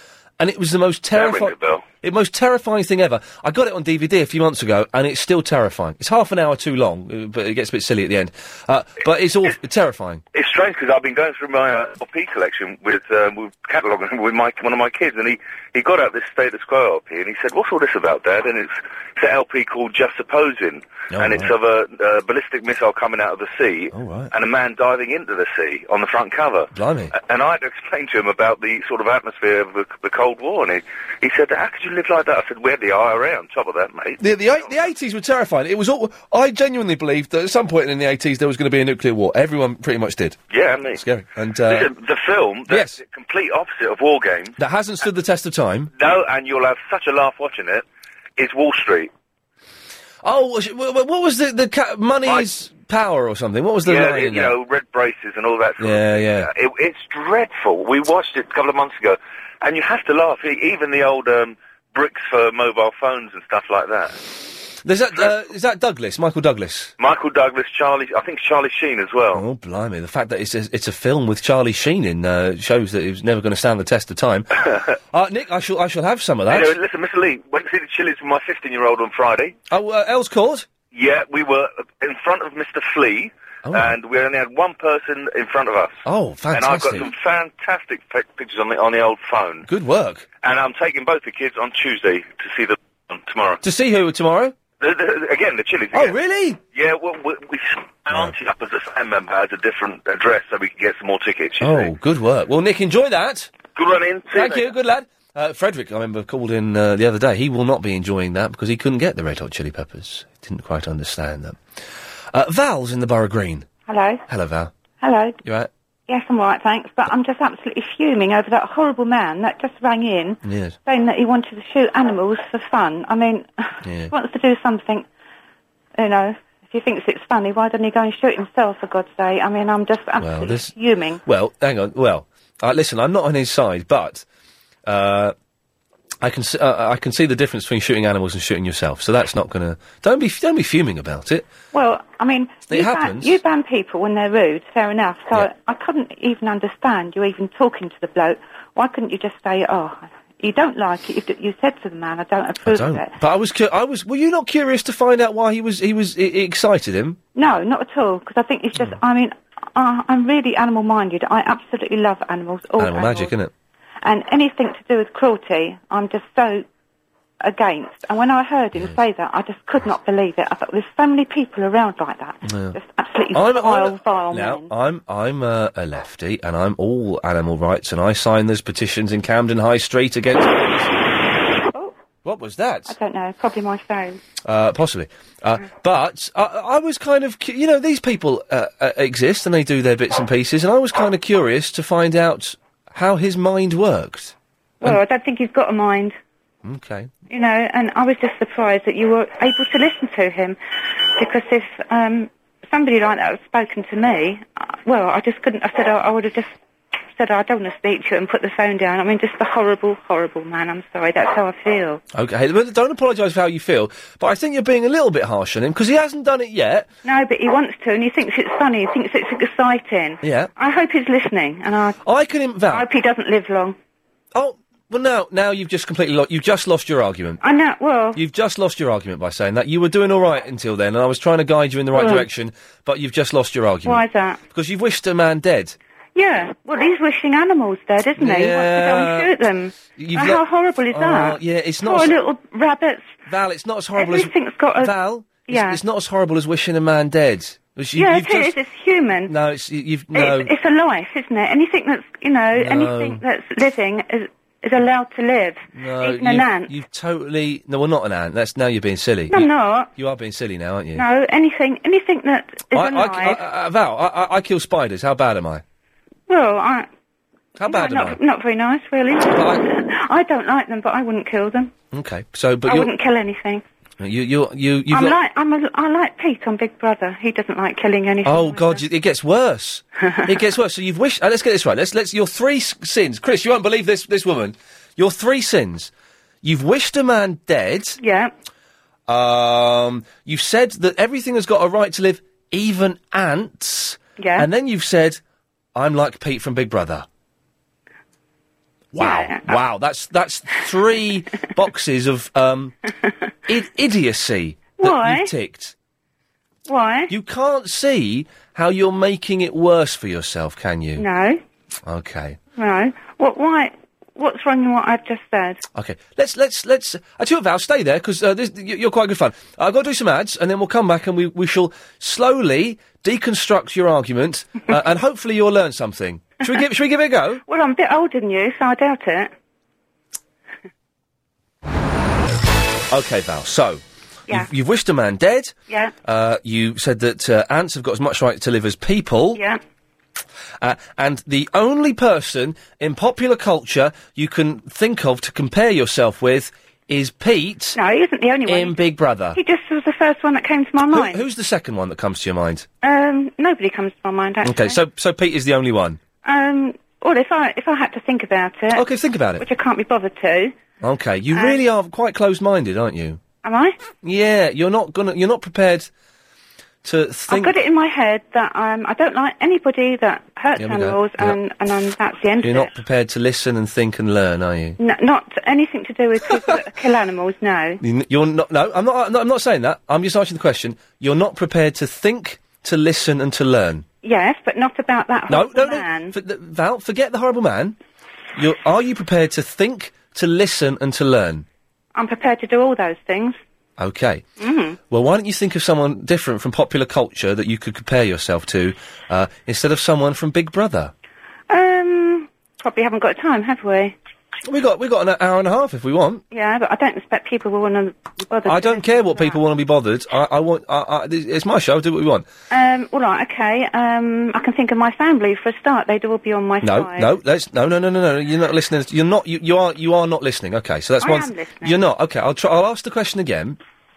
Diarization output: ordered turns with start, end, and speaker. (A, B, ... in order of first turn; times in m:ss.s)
0:00.4-0:10.2 A
0:01.1-0:01.8 B
0:10.3-0:34.8 B
0:21.1-0:21.5 A
0:23.9-0:24.3 A
0:26.7-0:27.1 A
0:34.2-0:40.4 A
0:40.5-0:41.0 B
0:40.9-0:41.9 A
0:41.7-0:44.5 B
0:42.7-0:43.0 A
0:44.6-0:45.9 A
0:46.0-0:47.8 B
0:48.4-0:49.1 B
0:50.2-0:54.5 A
0:53.8-1:04.3 B
0:55.8-0:56.5 A
1:04.8-1:06.9 A
1:07.0-1:09.4 B
1:09.3-1:14.5 A
1:15.1-1:16.7 A
1:16.5-1:19.5 B
1:19.7-1:20.7 A
1:20.9-1:29.7 B
1:23.6-1:23.9 A
1:26.0-1:27.1 A
1:29.7-1:30.2 A
1:30.4-1:33.6 B
1:33.6-1:34.6 A
1:34.8-1:36.1 B
1:35.9-1:36.6 A
1:36.7-1:41.9 B
1:41.6-1:43.6 A
1:43.7-1:44.7 B
1:44.3-1:51.6 A
1:52.3-1:53.7 A
1:53.9-1:54.2 C
1:54.3-1:54.7 A
1:55.0-1:55.4 C
1:55.4-1:55.7 A
1:56.1-2:05.0 C
2:00.4-2:00.8 A
2:03.8-2:04.1 A
2:06.0-2:11.2 C
2:10.2-2:10.7 A
2:11.2-2:14.2 A
2:14.8-2:15.3 A
2:16.2-2:21.5 A
2:21.7-2:33.1 C
2:22.7-2:23.4 A
2:32.6-2:37.2 A
2:37.3-2:43.3 C
2:42.8-2:43.5 A
2:44.0-2:46.6 C
2:47.4-2:54.7 C
2:52.4-2:52.8 A
2:53.3-3:01.0 A
3:02.2-3:02.9 A
3:02.9-3:04.2 C
3:04.4-3:15.0 A
3:14.8-3:16.2 C
3:16.6-3:17.1 A
3:17.3-3:20.6 C
3:21.2-3:26.5 C
3:27.1-3:32.0 C
3:32.1-3:36.9 A
3:37.0-3:42.0 C
3:40.2-3:40.5 A
3:42.0-3:42.8 A
3:42.7-3:43.8 C
3:44.3-3:47.4 A
3:47.4-3:48.2 C
3:48.1-3:55.8 A
3:51.9-3:52.3 C
3:53.8-3:54.4 C
3:56.1-4:03.2 C
3:58.2-3:59.3 A
3:59.9-4:02.2 A
4:03.3-4:08.6 A
4:04.0-4:04.9 C
4:05.5-4:05.8 C
4:08.0-4:09.3 C
4:09.3-4:10.5 A
4:10.1-4:16.7 C
4:12.5-4:13.2 A
4:15.7-4:21.0 A
4:19.3-4:19.9 C
4:20.9-4:23.4 C
4:22.7-4:25.6 A
4:26.3-4:26.9 C
4:27.6-4:28.2 A
4:27.6-4:31.7 C
4:29.3-4:29.6 A
4:31.9-4:32.9 A
4:32.6-4:33.6 C
4:34.0-4:35.2 A
4:34.9-4:38.8 C
4:38.2-4:45.9 A
4:46.4-4:48.0 A
4:48.0-4:48.3 C
4:49.1-4:55.2 A
4:54.2-4:54.5 C
4:55.7-4:57.0 A
4:58.9-5:02.8 A
4:59.0-4:59.6 C
5:03.5-5:05.7 A
5:04.8-5:05.3 C
5:06.6-5:07.1 C
5:07.1-5:11.0 A
5:11.0-5:11.4 C
5:11.8-5:12.4 A
5:12.5-5:15.6 C
5:15.7-5:27.4 A
5:27.4-5:29.3 C
5:32.9-5:39.4 A
5:39.3-5:39.6 C
5:40.6-5:47.8 A
5:47.7-5:48.8 C
5:48.5-5:49.4 A
5:49.3-5:51.2 C
5:50.9-5:52.7 A
5:52.8-5:54.8 C
5:54.4-5:56.0 A
5:56.2-5:58.8 C
5:58.7-5:59.4 A
5:59.4-6:00.5 C
6:00.8-6:03.2 A
6:01.3-6:01.6 C
6:03.4-6:03.8 C
6:04.0-6:05.9 A
6:06.8-6:07.6 A
6:07.3-6:12.7 C
6:10.6-6:11.4 A
6:12.4-6:14.8 A
6:14.8-6:17.8 C
6:17.8-6:23.8 A
6:24.0-6:26.1 C
6:25.3-6:27.8 A
6:28.4-6:31.4 A
6:31.9-6:33.4 C
6:33.8-6:34.2 A
6:34.4-6:34.8 C
6:34.9-6:40.9 A
6:41.5-6:43.9 C
6:44.4-6:46.2 A
6:46.3-6:49.4 C
6:48.5-6:52.2 A
6:52.5-6:57.1 C
6:56.6-7:03.6 A
7:01.0-7:01.8 C